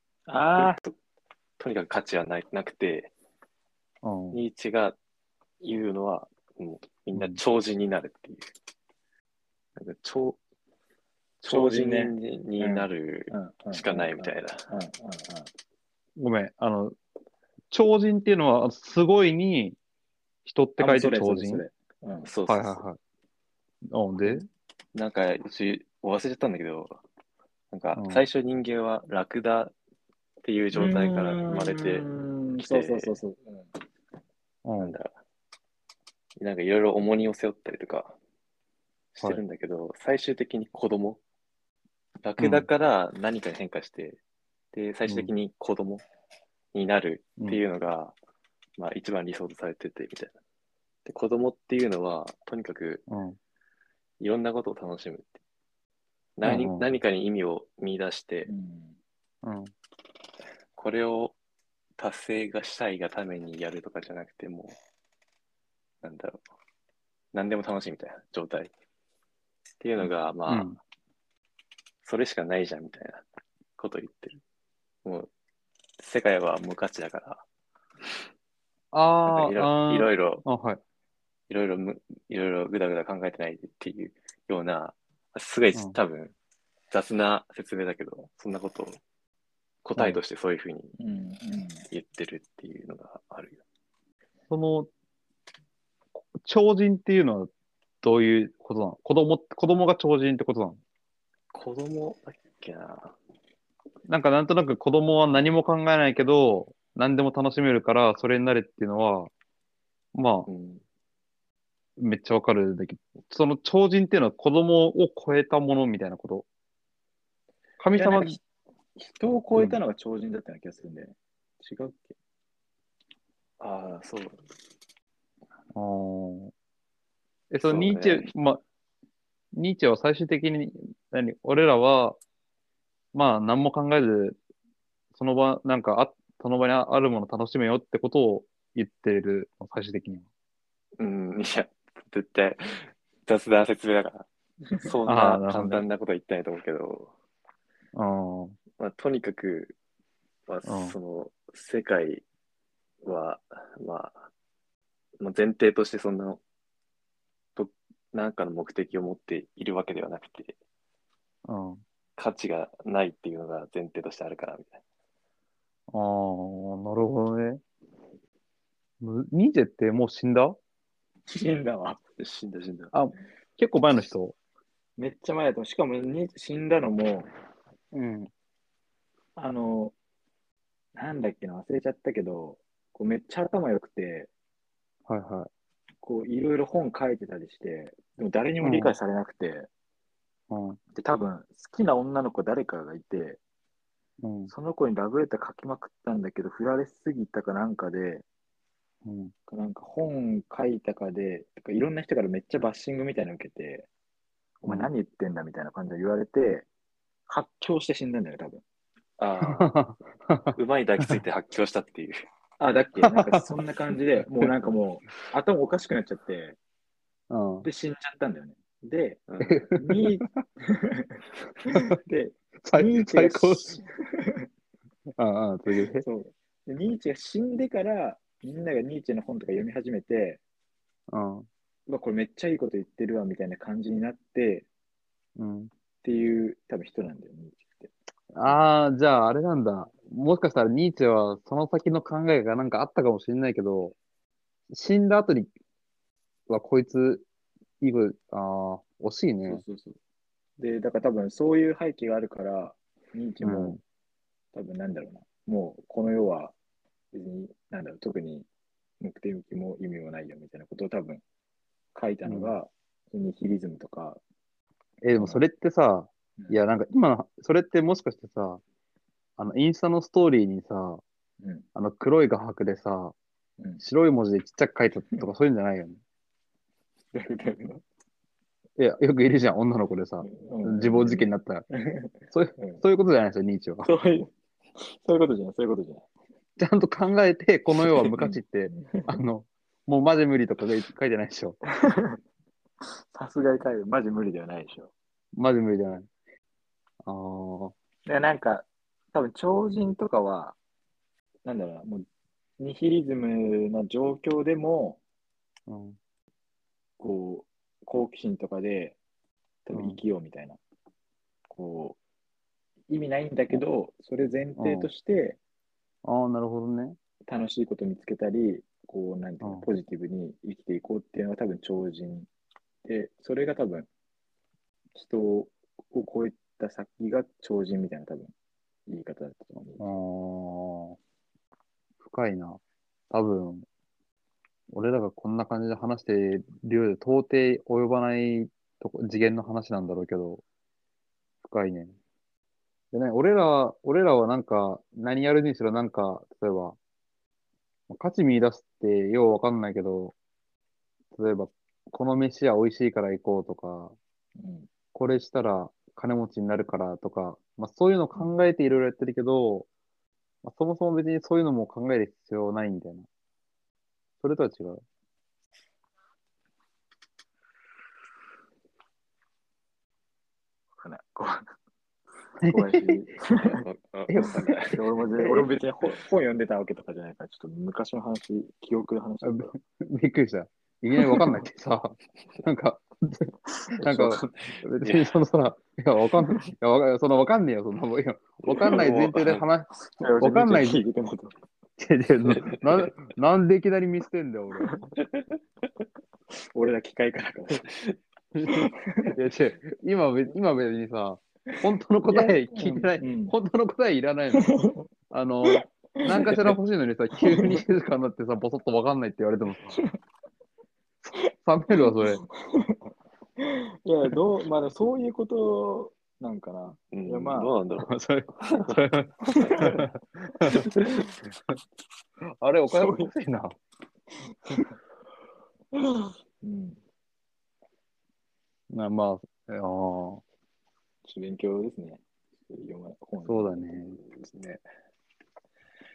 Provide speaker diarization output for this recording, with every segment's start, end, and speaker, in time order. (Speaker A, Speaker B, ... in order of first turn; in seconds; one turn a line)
Speaker A: 0.3-0.8
Speaker B: 0.6-0.9
Speaker B: 1.6-3.1
Speaker C: 4.0-4.4
Speaker B: 4.3-5.0
Speaker B: 5.6-8.5
Speaker B: 9.8-10.4
Speaker B: 11.4-14.7
Speaker A: 11.5-15.5
Speaker C: 16.2-16.9
Speaker C: 17.7-19.8
Speaker C: 20.4-21.6
Speaker A: 20.8-22.3
Speaker B: 22.2-22.8
Speaker C: 22.5-23.0
Speaker C: 23.9-24.4
Speaker B: 24.9-27.0
Speaker B: 27.7-29.7
Speaker C: 27.9-28.2
Speaker B: 30.4-32.0
Speaker A: 30.7-33.7
Speaker B: 32.6-33.1
Speaker C: 34.6-35.0
Speaker B: 34.8-35.1
Speaker B: 36.4-38.1
Speaker B: 39.1-41.2
Speaker B: 42.2-44.2
Speaker C: 42.4-42.7
Speaker B: 44.7-46.0
Speaker C: 45.1-45.3
Speaker B: 46.7-48.1
Speaker B: 48.8-50.3
Speaker B: 51.0-53.0
Speaker C: 53.1-53.4
Speaker B: 54.2-55.4
Speaker B: 56.4-58.5
Speaker C: 56.4-56.9
Speaker A: 58.5-59.0
Speaker C: 59.4-59.7
Speaker B: 60.8-61.3
Speaker B: 62.0-64.8
Speaker B: 66.0-66.4
Speaker B: 67.3-68.7
Speaker B: 69.8-70.7
Speaker C: 70.0-70.8
Speaker B: 72.0-73.2
Speaker B: 73.8-74.4
Speaker B: 76.0-77.4
Speaker C: 78.9-80.8
Speaker B: 79.2-80.4
Speaker B: 81.5-86.3
Speaker B: 86.9-89.0
Speaker B: 89.8-90.9
Speaker A: 91.0-91.8
Speaker B: 91.9-93.6
Speaker C: 94.5-94.9
Speaker C: 96.4-97.5
Speaker C: 98.0-100.8
Speaker B: 101.5-103.1
Speaker C: 104.1-109.3
Speaker C: 110.1-110.5
Speaker B: 110.5-110.8
Speaker C: 112.0-116.5
Speaker C: 117.8-118.4
Speaker A: 117.9-118.4
Speaker A: 119.0-122.1
Speaker B: 123.6-124.4
Speaker C: 125.7-126.5
Speaker C: 127.5-128.6
Speaker B: 127.6-128.3
Speaker C: 129.5-132.2
Speaker C: 133.1-134.4
Speaker C: 135.1-140.2
Speaker B: 141.0-144.2
Speaker B: 144.8-147.1
Speaker C: 145.1-145.8
Speaker C: 147.9-148.6
Speaker B: 148.8-149.7
Speaker B: 150.5-152.2
Speaker C: 150.7-150.9
Speaker B: 153.0-154.3
Speaker B: 155.2-156.4
Speaker B: 157.6-160.5
Speaker C: 161.4-161.8
Speaker B: 162.2-164.8
Speaker C: 165.9-167.6
Speaker C: 169.0-170.6
Speaker A: 171.3-172.0
Speaker B: 172.2-172.9
Speaker C: 172.9-174.3
Speaker A: 175.0-177.3
Speaker C: 177.9-178.3
Speaker A: 179.3-179.9
Speaker A: 180.9-184.3
Speaker C: 185.1-185.5
Speaker A: 186.0-189.7
Speaker C: 188.6-189.0
Speaker C: 190.5-190.8
Speaker A: 190.9-193.4
Speaker C: 194.2-194.5
Speaker A: 194.5-198.2
Speaker C: 199.0-199.3
Speaker A: 199.5-203.9
Speaker A: 204.6-206.7
Speaker C: 204.6-204.9
Speaker A: 207.3-208.6
Speaker B: 209.2-209.7
Speaker C: 209.4-210.5
Speaker B: 210.5-212.2
Speaker A: 212.6-216.6
Speaker C: 213.0-213.4
Speaker C: 217.3-217.7
Speaker A: 217.6-219.2
Speaker B: 219.3-219.7
Speaker C: 219.4-220.3
Speaker A: 219.8-221.2
Speaker A: 221.9-224.4
Speaker C: 222.6-223.8
Speaker C: 225.2-226.0
Speaker A: 225.8-230.4
Speaker C: 231.1-231.5
Speaker A: 231.9-234.7
Speaker C: 235.4-235.7
Speaker A: 236.0-237.9
Speaker C: 238.3-243.9
Speaker C: 244.7-245.5
Speaker C: 246.5-247.2
Speaker C: 247.8-249.6
Speaker A: 249.5-249.9
Speaker A: 250.6-253.8
Speaker C: 253.4-253.8
Speaker A: 254.5-256.5
Speaker A: 257.1-258.5
Speaker A: 259.0-261.2
Speaker A: 261.9-264.2
Speaker C: 262.2-262.5
Speaker C: 265.0-268.6
Speaker A: 265.1-265.4
Speaker C: 269.4-271.0
Speaker A: 271.4-271.6
Speaker C: 271.7-273.1
Speaker C: 273.8-276.0
Speaker A: 277.1-277.8
Speaker C: 278.8-281.6
Speaker A: 280.2-282.8
Speaker C: 282.3-283.9
Speaker A: 283.8-286.0
Speaker C: 286.6-291.6
Speaker A: 287.9-289.2
Speaker A: 291.9-292.2
Speaker A: 293.1-294.9
Speaker C: 295.4-296.1
Speaker C: 297.0-297.7
Speaker A: 298.1-300.6
Speaker A: 301.4-302.1
Speaker A: 302.6-305.0
Speaker C: 305.7-306.0
Speaker A: 307.0-309.0
Speaker A: 309.6-310.6
Speaker C: 309.7-310.0
Speaker A: 311.5-312.0
Speaker A: 312.9-315.4
Speaker C: 314.6-314.9
Speaker C: 316.0-317.0
Speaker A: 317.3-322.3
Speaker C: 319.4-319.7
Speaker A: 322.8-323.9
Speaker A: 324.9-328.3
Speaker A: 328.9-330.0
Speaker C: 329.8-331.0
Speaker C: 332.0-332.6
Speaker C: 333.1-333.6
Speaker C: 334.7-340.4
Speaker C: 341.4-341.9
Speaker C: 342.9-346.8
Speaker C: 347.9-350.1
Speaker C: 351.1-353.9
Speaker A: 354.4-354.7
Speaker C: 354.9-359.7
Speaker C: 360.4-363.1
Speaker C: 364.2-364.8
Speaker A: 370.8-371.4
Speaker C: 372.4-373.0
Speaker A: 372.4-373.6
Speaker B: 373.4-374.8
Speaker C: 374.1-374.6
Speaker A: 374.2-379.6
Speaker C: 379.2-390.8
Speaker B: 383.7-385.1
Speaker B: 388.5-389.5
Speaker A: 390.0-391.3
Speaker C: 391.8-394.8
Speaker B: 392.3-392.9
Speaker A: 396.5-397.6
Speaker B: 397.6-397.9
Speaker C: 398.3-409.8
Speaker A: 398.5-399.1
Speaker A: 402.1-403.3
Speaker A: 404.3-404.8
Speaker A: 405.4-406.5
Speaker A: 407.2-407.6
Speaker C: 411.0-412.2
Speaker A: 411.8-412.8
Speaker A: 413.4-417.5
Speaker B: 416.9-417.9
Speaker C: 417.8-420.9
Speaker A: 419.3-419.8
Speaker A: 420.5-421.0
Speaker C: 422.4-423.6
Speaker A: 422.7-423.1
Speaker A: 426.0-426.8
Speaker C: 428.7-430.2
Speaker A: 431.0-433.9
Speaker C: 433.2-434.0
Speaker B: 434.0-434.6